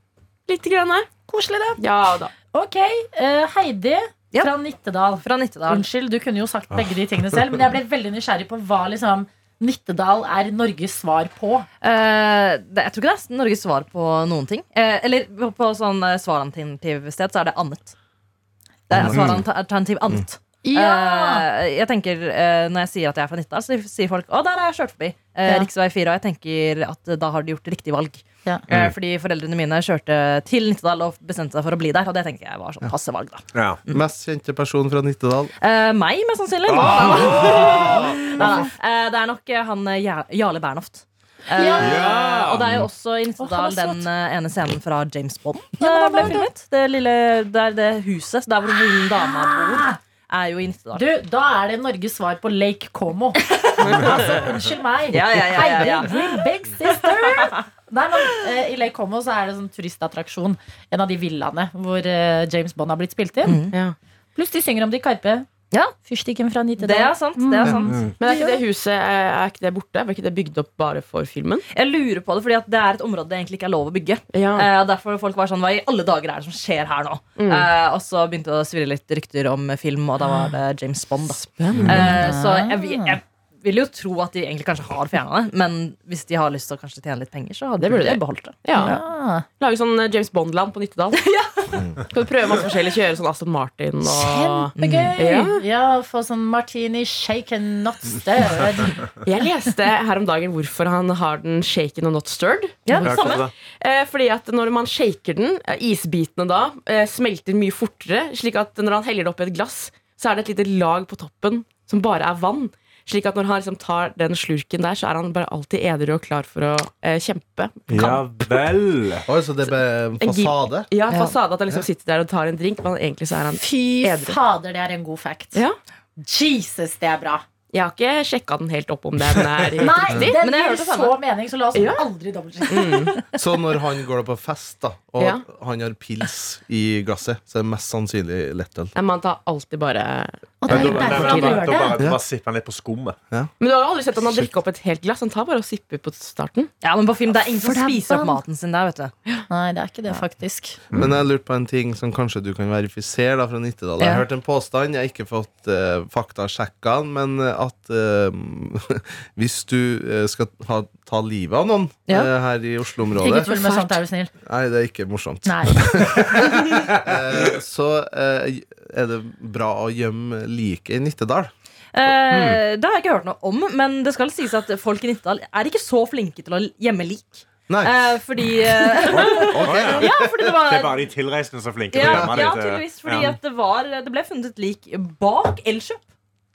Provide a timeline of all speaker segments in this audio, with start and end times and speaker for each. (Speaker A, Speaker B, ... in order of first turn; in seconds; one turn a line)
Speaker A: 0.5-1.1
Speaker B: 1.3-1.8
Speaker A: 1.8-2.3
Speaker B: 2.5-11.7
Speaker C: 5.2-5.8
Speaker C: 11.8-17.9
Speaker C: 18.9-34.0
Speaker D: 18.9-19.4
Speaker B: 20.6-21.4
Speaker E: 28.7-28.9
Speaker E: 33.5-33.8
Speaker D: 33.9-35.5
Speaker C: 35.6-51.0
Speaker E: 36.7-38.5
Speaker D: 37.1-37.9
Speaker B: 38.4-38.6
Speaker B: 41.5-42.3
Speaker E: 41.8-42.8
Speaker B: 43.4-44.1
Speaker B: 45.8-46.5
Speaker B: 49.2-50.0
Speaker B: 50.9-63.6
Speaker C: 53.4-54.4
Speaker C: 55.1-57.6
Speaker C: 63.4-63.8
Speaker B: 64.3-65.5
Speaker B: 66.0-68.6
Speaker C: 66.8-68.0
Speaker D: 67.6-67.9
Speaker E: 67.9-68.1
Speaker A: 68.2-71.6
Speaker C: 71.7-89.0
Speaker A: 74.3-74.7
Speaker A: 77.4-77.7
Speaker A: 81.6-82.2
Speaker E: 81.8-82.1
Speaker B: 82.0-83.2
Speaker A: 87.8-89.0
Speaker B: 88.8-89.4
Speaker A: 89.6-91.2
Speaker C: 91.1-91.9
Speaker A: 92.0-95.6
Speaker B: 94.0-99.1
Speaker C: 94.8-95.2
Speaker A: 99.2-102.8
Speaker C: 102.8-103.5
Speaker B: 102.9-103.4
Speaker E: 103.0-103.5
Speaker A: 103.8-118.4
Speaker E: 117.9-119.3
Speaker D: 119.2-120.9
Speaker A: 120.2-124.4
Speaker C: 121.1-121.3
Speaker B: 123.6-125.6
Speaker B: 126.2-127.4
Speaker A: 127.7-130.4
Speaker B: 129.8-133.2
Speaker C: 130.3-131.2
Speaker A: 131.7-132.0
Speaker A: 132.7-133.1
Speaker C: 132.9-133.2
Speaker D: 133.4-138.9
Speaker A: 138.9-141.8
Speaker B: 140.6-142.0
Speaker E: 140.7-143.2
Speaker A: 143.6-146.7
Speaker C: 146.8-149.1
Speaker B: 147.6-148.4
Speaker B: 149.5-150.8
Speaker D: 150.9-163.5
Speaker C: 154.0-154.3
Speaker B: 163.2-164.3
Speaker C: 163.6-164.0
Speaker D: 164.4-171.5
Speaker B: 165.4-165.9
Speaker E: 166.2-167.0
Speaker C: 171.9-181.1
Speaker E: 172.2-172.6
Speaker D: 177.7-178.0
Speaker D: 179.0-180.3
Speaker E: 179.1-183.4
Speaker C: 181.9-186.0
Speaker D: 182.0-182.4